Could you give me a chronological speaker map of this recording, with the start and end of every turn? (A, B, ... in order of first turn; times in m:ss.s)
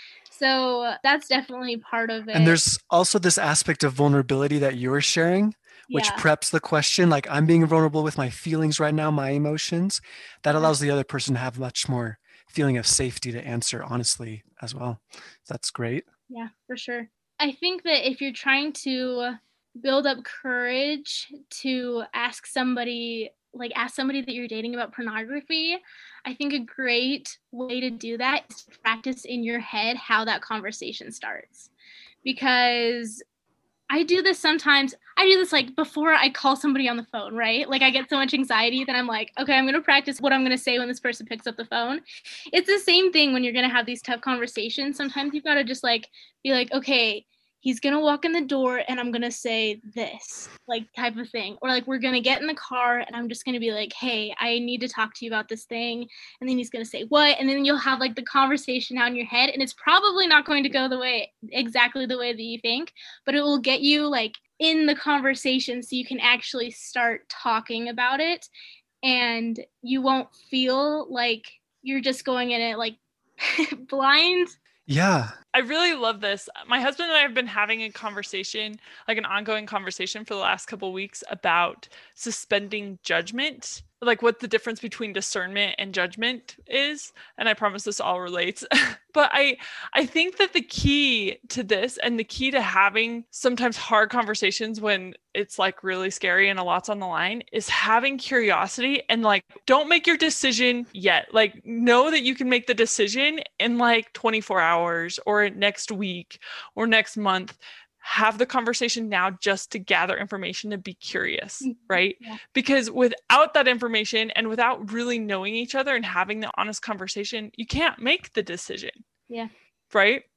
0:00.3-0:02.6 A
0:02.3-0:16.0 B
0:05.9-0:06.2 A
0:16.3-0:31.7 A
0:32.2-0:33.2 A
0:33.9-1:08.5 A
1:09.0-1:14.5 A
1:14.9-1:15.3 B
1:15.5-1:59.0 C
1:51.6-1:52.4 A
1:59.9-2:00.2 C